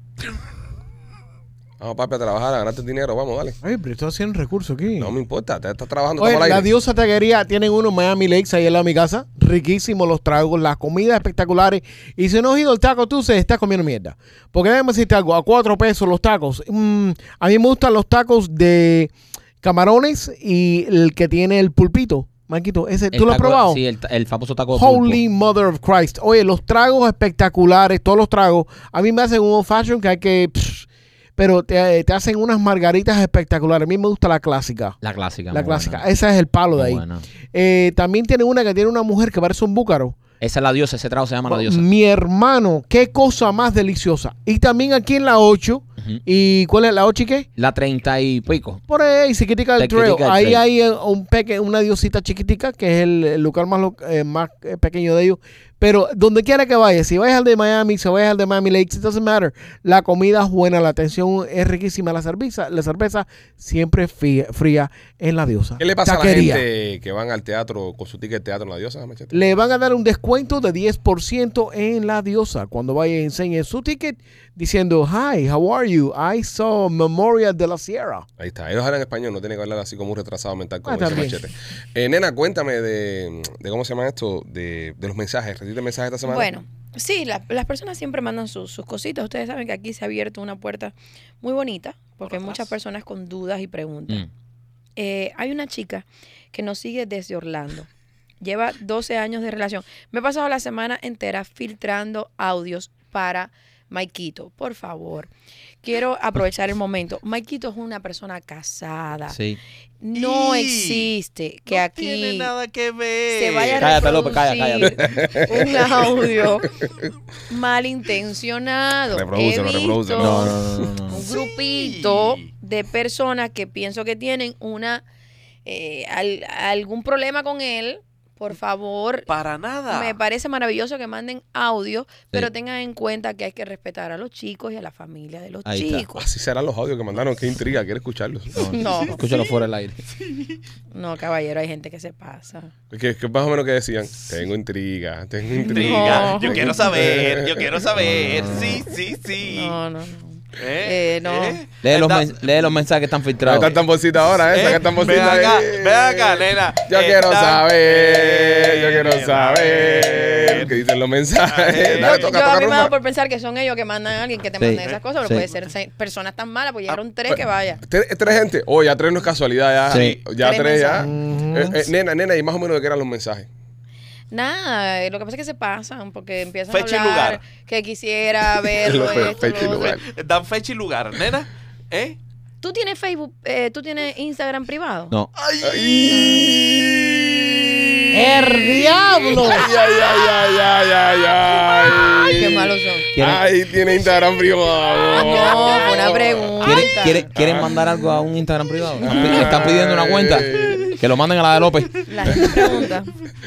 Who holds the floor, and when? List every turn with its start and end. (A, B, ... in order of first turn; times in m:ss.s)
0:01.8-0:03.6 A
0:03.6-0:05.1 B
0:05.0-0:06.7 A
0:06.2-0:23.8 B
0:23.1-0:25.2 C
0:24.7-0:35.0 B
0:35.0-0:36.0 C
0:35.5-0:40.2 B
0:36.7-0:37.2 C
0:40.4-0:41.8 C
0:41.5-0:47.5 B
0:47.6-0:48.8 C
0:48.9-1:06.6 B
0:49.8-0:50.6 C
1:05.8-1:09.5 A
1:09.3-1:18.2 B
1:18.4-1:26.5 A
1:20.8-1:21.4 B
1:26.2-1:34.2 D
1:32.2-1:32.7 E
1:35.0-1:37.9 D
1:38.4-1:45.3 D
1:45.8-1:49.4 D
1:49.3-1:49.6 C
1:50.0-1:52.5 D
1:50.1-1:51.1 E
1:51.7-1:54.1 E
1:53.3-1:56.8 D
1:53.8-1:55.3 C
1:54.9-1:56.2 A
1:56.8-1:57.1 A
1:57.5-2:00.5 D
1:59.1-2:00.9 A
2:00.2-2:01.3 C
2:01.1-2:05.0 D
2:01.2-2:02.5 E
2:05.6-2:09.3 D
2:09.3-2:10.2 E
2:09.9-2:16.2 D
2:15.6-2:16.0 C
2:16.1-2:18.7 A
2:18.5-2:20.0 C
2:18.6-2:19.2 D
2:20.9-2:22.7 D
2:22.9-2:27.8 A
2:25.6-2:26.8 D
2:25.6-2:29.8 E
2:28.0-2:28.8 C
2:29.4-2:31.6 D
2:30.6-2:32.4 E
2:31.8-2:33.8 C
2:33.4-2:42.9 A
2:34.5-2:40.7 E
2:41.4-2:42.3 E
2:42.0-2:47.8 D
2:44.6-2:45.4 C
2:47.3-2:53.5 A
2:49.9-2:50.2 C
2:50.3-2:51.1 D
2:51.0-2:51.8 B
2:54.3-3:00.0 D
2:56.7-2:57.4 E
2:58.8-3:00.0 A
2:59.8-3:02.2 E
3:02.6-3:05.1 D
3:05.4-3:06.1 E
3:05.6-3:07.9 A
3:06.1-3:06.5 D
3:08.1-3:09.7 B
3:09.3-3:16.8 A
3:12.2-3:13.1 D
3:13.1-3:13.4 C
3:15.1-3:17.8 D
3:16.6-3:22.7 C
3:17.3-3:17.8 A
3:19.0-3:21.0 A
3:22.0-3:23.1 D
3:22.3-3:22.8 A